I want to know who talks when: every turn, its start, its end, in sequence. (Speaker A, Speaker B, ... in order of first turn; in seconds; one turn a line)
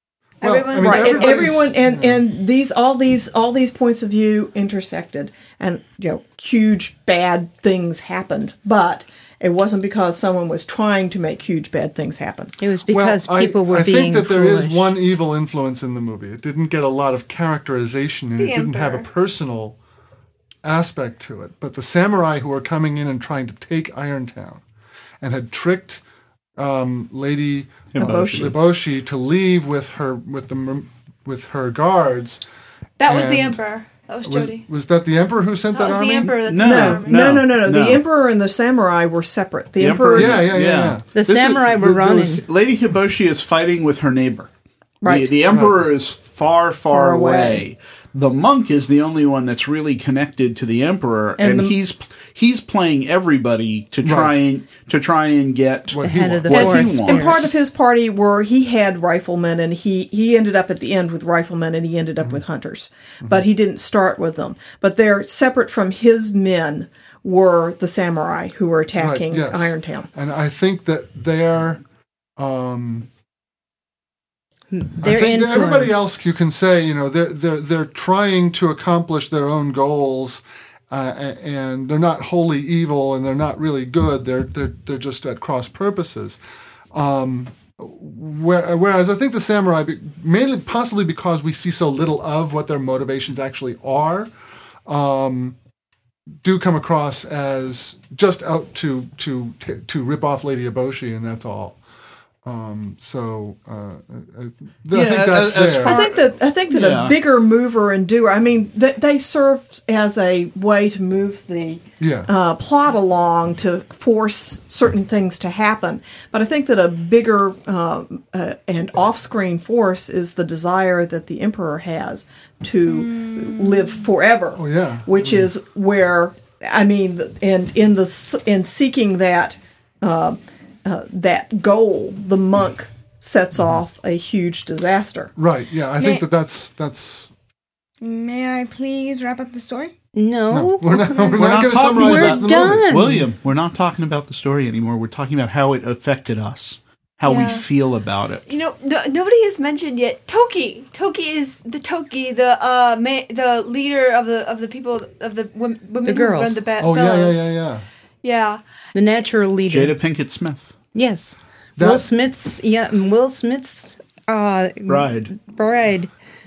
Speaker A: 0.4-1.6
Speaker B: 0.4-2.2
Speaker C: 0.7-12.6
Speaker D: 12.6-15.0
Speaker B: 12.9-19.8
Speaker A: 18.4-19.1
Speaker B: 20.6-24.6
Speaker B: 25.2-26.0
Speaker B: 26.6-32.4
Speaker E: 27.9-28.6
Speaker C: 28.0-28.6
Speaker A: 33.0-34.6
Speaker B: 33.1-33.6
Speaker B: 34.2-36.4
Speaker A: 35.7-37.2
Speaker E: 36.2-38.0
Speaker C: 36.5-40.5
Speaker E: 39.8-44.5
Speaker B: 40.1-41.0
Speaker D: 41.1-42.4
Speaker C: 45.0-45.4
Speaker E: 45.0-57.4
Speaker B: 45.5-45.8
Speaker C: 46.9-47.6
Speaker C: 51.4-51.8
Speaker B: 54.0-54.4
Speaker B: 55.9-56.9
Speaker D: 56.0-57.5
Speaker C: 56.5-70.1
Speaker B: 69.0-71.8
Speaker B: 72.4-73.1
Speaker D: 74.7-76.1
Speaker B: 75.0-86.4
Speaker B: 86.9-94.3
Speaker B: 94.9-95.6
Speaker B: 96.4-101.8
Speaker B: 102.5-106.0
Speaker E: 104.9-107.2
Speaker C: 105.8-135.3
Speaker B: 112.0-112.3
Speaker F: 123.1-123.9
Speaker B: 124.6-125.5
Speaker B: 135.4-137.3
Speaker F: 136.0-136.2
Speaker F: 138.0-139.9
Speaker D: 140.1-143.3
Speaker B: 140.5-142.9
Speaker E: 141.4-148.4
Speaker A: 147.2-147.6
Speaker A: 148.5-157.6
Speaker D: 156.0-156.6
Speaker B: 156.8-157.9
Speaker A: 158.2-158.6
Speaker D: 158.9-160.0
Speaker E: 159.7-160.8
Speaker D: 160.9-166.1
Speaker B: 161.8-162.1
Speaker E: 164.9-165.3